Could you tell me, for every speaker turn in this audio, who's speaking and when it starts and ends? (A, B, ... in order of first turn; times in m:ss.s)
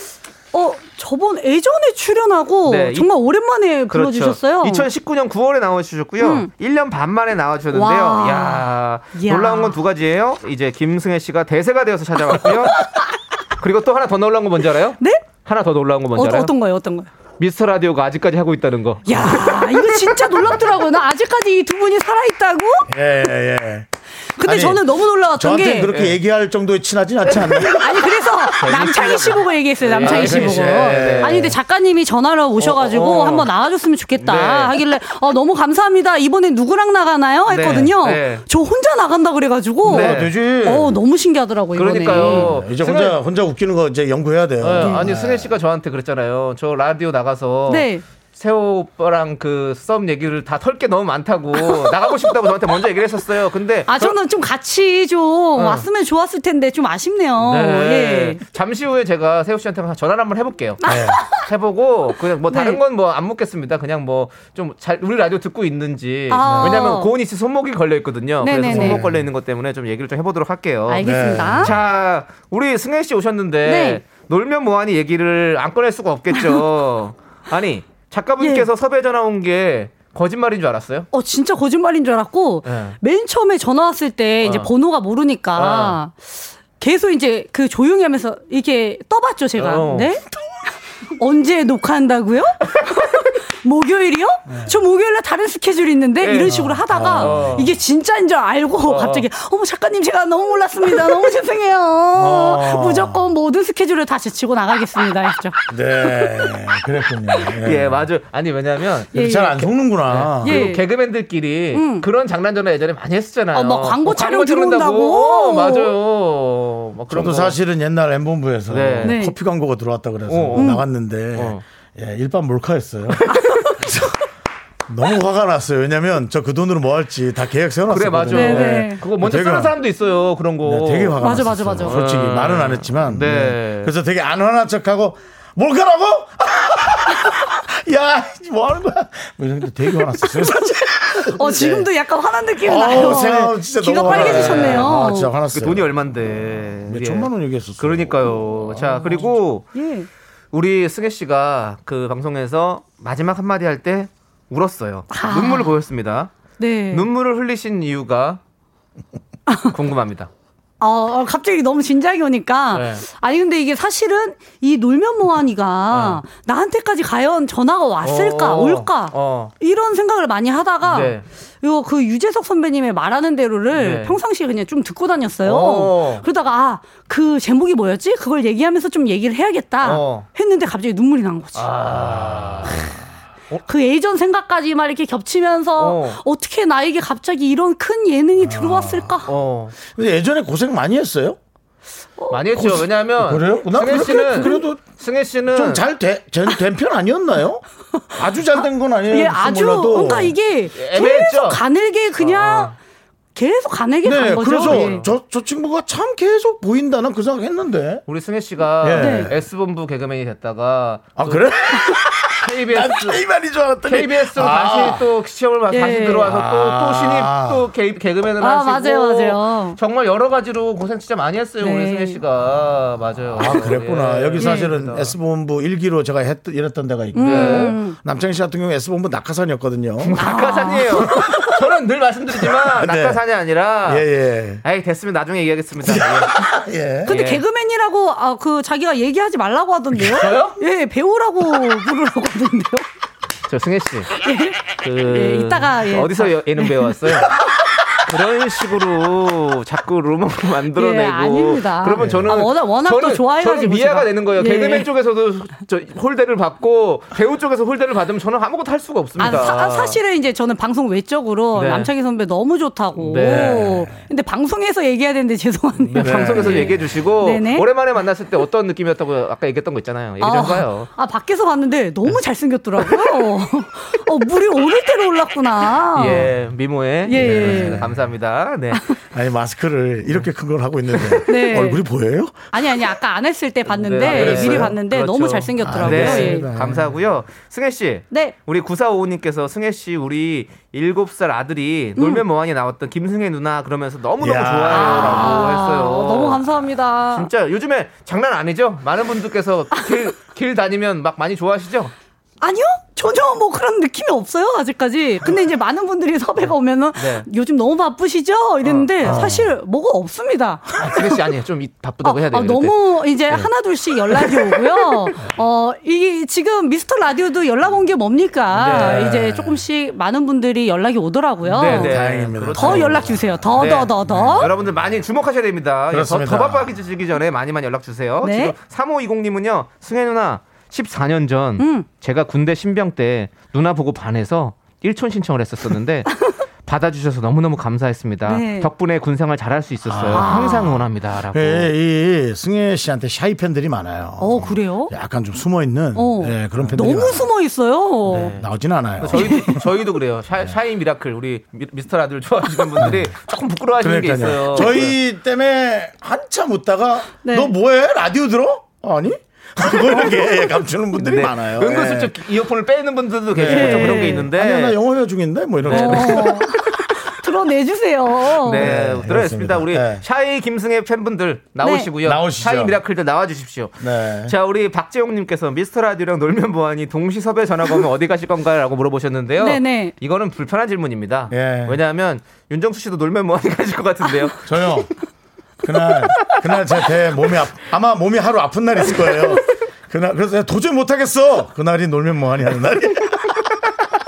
0:00.5-0:04.9 A
0:02.7-0:03.1 B
0:03.9-0:12.8 B
0:06.2-0:06.5 A
0:07.7-0:09.8 A
0:12.4-0:13.1 A
0:13.6-0:16.5 B
0:15.0-0:15.2 A
0:16.1-0:17.1 A
0:17.4-0:20.2 B
0:19.0-0:22.9 A
0:22.9-0:23.9 C
0:24.4-0:25.9 A
0:24.4-0:28.0 C
0:25.9-0:26.2 B
0:27.3-0:27.9 B
0:27.7-0:42.5 A
0:28.6-0:31.5 B
0:30.0-0:31.6 C
0:32.6-0:33.5 B
0:34.2-0:34.8 B
0:37.5-0:38.4 B
0:39.8-0:40.3 B
0:39.8-0:41.0 C
0:41.7-0:43.2 B
0:42.1-0:45.5 C
0:44.6-0:54.2 B
0:44.8-0:45.0 A
0:47.7-0:48.0 A
0:51.6-0:52.3 A
0:53.9-0:58.4 A
0:55.6-0:55.9 B
0:57.4-1:11.0 B
1:00.8-1:01.5 A
1:00.8-1:01.2 C
1:02.5-1:02.8 A
1:06.3-1:07.1 A
1:06.5-1:06.8 C
1:08.4-1:09.0 A
1:08.6-1:09.2 C
1:10.9-1:11.7 A
1:11.0-1:11.8 C
1:11.6-1:21.1 B
1:13.6-1:14.0 A
1:16.3-1:16.6 A
1:18.4-1:18.7 A
1:21.1-1:26.1 A
1:22.6-1:23.0 B
1:24.4-1:24.7 B
1:25.6-1:26.0 B
1:26.8-1:30.2 A
1:29.6-1:30.1 B
1:31.2-1:46.5 A
1:34.5-1:34.8 C
1:36.2-1:37.7 B
1:36.4-1:37.6 C
1:38.8-1:39.2 B
1:42.1-1:43.2 C
1:45.7-1:48.0 C
1:47.6-1:49.1 B
1:49.1-1:49.7 A
1:49.1-1:50.6 C
1:50.0-1:57.6 B
1:50.4-1:50.8 A
1:51.7-1:52.1 A
1:53.5-1:55.9 A
1:57.1-2:04.2 C
1:58.7-1:59.2 B
1:59.0-1:59.3 A
2:00.3-2:00.8 B
2:00.5-2:00.8 A
2:01.3-2:01.6 B
2:04.9-2:09.8 C
2:07.9-2:13.9 B
2:08.3-2:09.0 A
2:10.6-2:21.9 C
2:11.2-2:12.0 A
2:20.2-2:25.3 A
2:22.6-2:26.0 C
2:24.0-2:29.7 B
2:26.9-2:29.2 C
2:29.7-2:30.1 A
2:30.5-2:36.3 B
2:35.1-2:35.7 A
2:36.6-2:37.1 A
2:36.9-2:38.4 B
2:39.5-2:39.7 A
2:39.7-2:40.3 B
2:40.8-3:01.7 A
2:42.7-2:43.0 B
2:45.9-2:46.2 B
2:48.0-2:49.5 B
2:50.8-2:51.2 B
2:53.7-2:54.2 B
2:55.4-2:56.2 B
2:59.8-3:00.3 B
3:01.5-3:02.8 B
3:02.1-3:02.7 C
3:03.6-3:09.3 A
3:05.8-3:06.2 B
3:08.4-3:09.2 C
3:09.3-3:09.8 B
3:09.9-3:11.4 C
3:12.2-3:12.4 A
3:12.3-3:15.8 B
3:12.5-3:14.8 C
3:13.9-3:14.6 A
3:15.5-3:20.4 C
3:19.1-3:22.7 A
3:20.7-3:21.6 B
3:22.2-3:22.8 B
3:23.3-3:25.0 A
3:24.0-3:28.0 C
3:24.6-3:25.1 B
3:28.1-3:31.5 B
3:28.8-3:29.4 C
3:28.9-3:29.3 A
3:31.2-3:35.0 C
3:32.4-3:33.2 B
3:33.8-3:45.1 B
3:35.7-3:36.2 A
3:36.2-3:37.6 C
3:38.4-3:39.8 A
3:41.6-3:42.2 A
3:43.3-3:50.2 C
3:44.4-3:44.7 A
3:47.1-3:48.0 A
3:47.2-3:47.8 B
3:50.0-3:54.1 B
3:50.2-3:51.5 A
3:51.1-3:51.4 C
3:52.4-3:53.2 C
3:53.8-3:54.6 C
3:54.6-3:56.4 B
3:55.8-3:57.1 C
3:57.1-3:57.4 B
3:57.1-4:02.8 A
4:00.0-4:00.6 B
4:03.5-4:04.1 B
4:04.2-4:07.0 A
4:04.8-4:07.3 B
4:08.0-4:20.0 B
4:10.7-4:14.9 A
4:12.0-4:12.4 C
4:19.2-4:27.7 A
4:21.5-4:21.9 B
4:23.0-4:23.6 B
4:23.2-4:23.9 C
4:25.8-4:30.9 B
4:26.0-4:26.7 C
4:30.2-4:36.3 A
4:35.9-4:38.8 B
4:37.0-4:37.8 A
4:37.1-4:37.9 C
4:39.1-4:42.6 C
4:40.9-4:41.6 B
4:41.3-4:41.8 A
4:42.5-4:46.5 A
4:43.7-4:56.4 B
4:44.0-4:44.8 C
4:45.6-4:46.9 C
4:52.0-4:52.2 A
4:54.2-4:55.4 C
4:54.7-4:57.3 A
4:57.1-5:01.9 B
4:59.7-5:00.0 A
5:02.4-5:10.7 A
5:06.4-5:07.3 B
5:08.6-5:09.3 B
5:09.0-5:09.5 C
5:10.8-5:12.8 B
5:12.0-5:24.5 A
5:18.5-5:19.2 B
5:18.6-5:19.6 C
5:21.5-5:36.1 B
5:21.5-5:24.5 C
5:25.9-5:26.7 C
5:28.2-5:28.5 A
5:31.6-5:31.9 A
5:36.6-5:41.7 B
5:38.2-5:38.7 A
5:39.8-5:47.3 C
5:40.1-5:40.8 A
5:44.2-5:44.9 A
5:45.9-5:48.4 A
5:48.1-5:48.4 B
5:48.1-5:49.6 C
5:49.0-5:54.9 B
5:49.1-5:49.6 A
5:52.8-5:53.1 C
5:53.8-6:02.1 C
5:57.2-5:57.5 A
6:01.0-6:04.8 B
6:03.3-6:06.4 C
6:03.5-6:04.3 A
6:05.6-6:06.6 B
6:05.7-6:08.7 A
6:08.4-6:24.4 B
6:08.5-6:10.0 C
6:11.6-6:11.9 A
6:12.0-6:12.8 C
6:13.8-6:14.3 C
6:19.4-6:19.9 A
6:21.3-6:21.8 C
6:24.4-6:24.9 C
6:25.6-6:33.3 C